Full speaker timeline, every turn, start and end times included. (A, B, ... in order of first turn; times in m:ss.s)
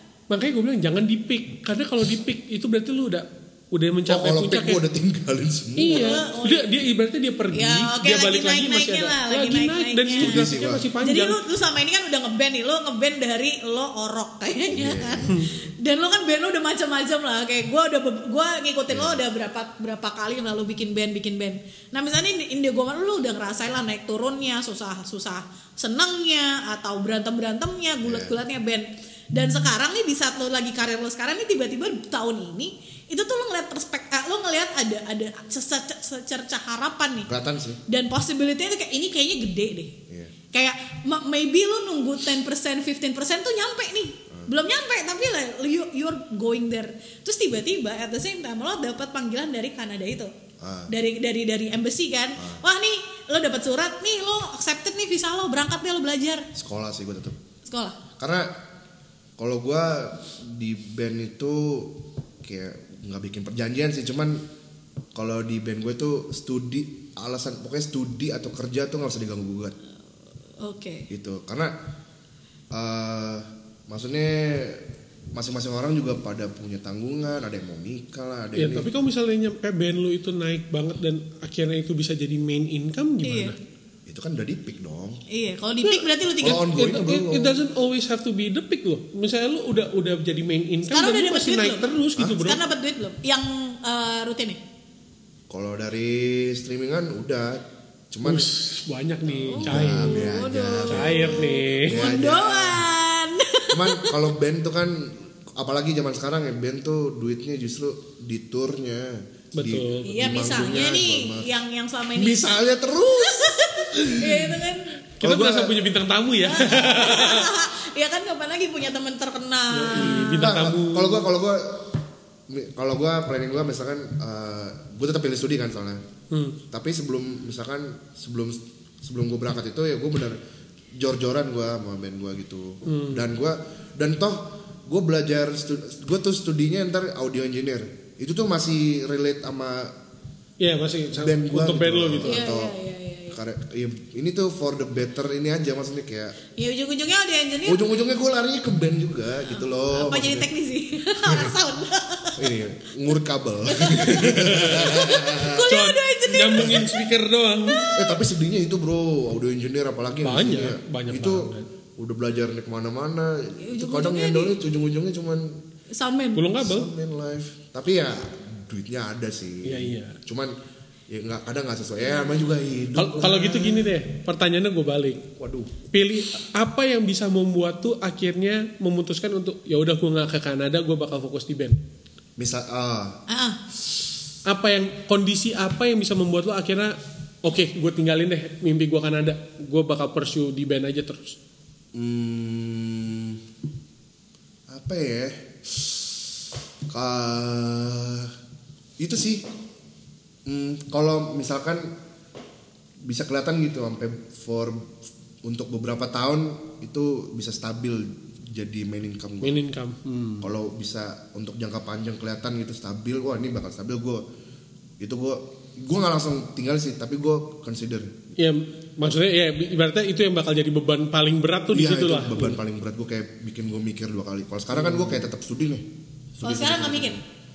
0:00.3-0:04.8 A
0:04.1-0:06.2 B
0:05.8-0:11.4 A
0:05.8-0:06.8 C
0:07.5-0:10.4 C
0:10.2-0:10.9 B
0:11.0-0:37.3 C
0:14.7-0:15.8 B
0:15.3-0:15.5 A
0:18.9-0:19.2 B
0:28.0-0:28.4 B
0:37.3-0:37.8 B
0:37.9-0:39.9 C
0:40.5-0:50.3 C
0:50.6-0:50.9 B
0:50.9-0:56.5 C
0:52.4-0:52.6 B
0:56.5-0:57.4 B
0:57.6-0:58.0 C
0:58.2-0:58.5 B
0:59.4-1:04.4 B
1:05.1-1:09.8 B
1:10.6-1:11.1 C
1:11.1-1:11.7 B
1:12.7-1:18.9 B
1:18.5-1:23.6 A
1:23.2-1:23.5 C
1:24.0-1:25.2 B
1:25.3-1:26.7 C
1:26.4-1:27.6 B
1:26.6-1:32.6 A
1:30.9-1:34.6 C
1:32.2-1:32.5 B
1:35.5-1:38.5 B
1:38.2-1:42.0 A
1:39.4-1:42.8 B
1:39.5-1:44.2 C
1:43.7-1:51.5 B
1:49.6-1:50.5 A
1:50.0-1:55.0 C
1:52.1-1:54.6 B
1:55.2-1:57.5 A
1:55.2-1:55.8 B
1:56.4-2:00.6 C
1:59.7-2:01.2 A
2:00.0-2:02.0 B
2:02.5-2:06.0 B
2:06.3-2:06.6 A
2:06.7-2:10.4 B
2:11.0-2:19.9 B
2:12.9-2:13.3 A
2:20.6-2:22.4 A
2:21.1-2:22.7 B
2:22.2-2:23.4 C
2:23.3-2:26.4 B
2:26.6-2:27.9 C
2:27.6-2:30.5 B
2:29.5-2:32.6 C
2:31.2-2:31.5 B
2:32.4-2:35.7 B
2:33.7-2:37.0 C
2:33.9-2:37.9 A
2:37.6-2:38.2 C
2:38.0-2:45.6 B
2:40.2-2:41.7 A
2:43.6-2:44.6 C
2:45.9-2:46.5 C
2:46.3-2:46.9 A
2:46.6-2:50.5 B
2:49.6-2:50.2 A
2:51.1-2:53.9 B
2:53.0-2:55.3 A
2:55.4-2:55.7 B
2:55.9-3:01.8 A
3:02.4-3:03.2 B
3:03.3-3:03.6 C
3:04.4-3:11.4 A
3:11.9-3:13.4 B
3:14.7-3:15.8 B
3:16.9-3:18.3 B
3:19.0-3:19.5 B
3:20.4-3:21.9 B
3:23.0-3:29.6 B
3:29.4-3:30.5 A
3:30.4-3:34.2 B
3:35.0-3:38.4 B
3:38.4-3:42.6 A
3:41.7-3:47.2 B
3:46.4-3:47.2 C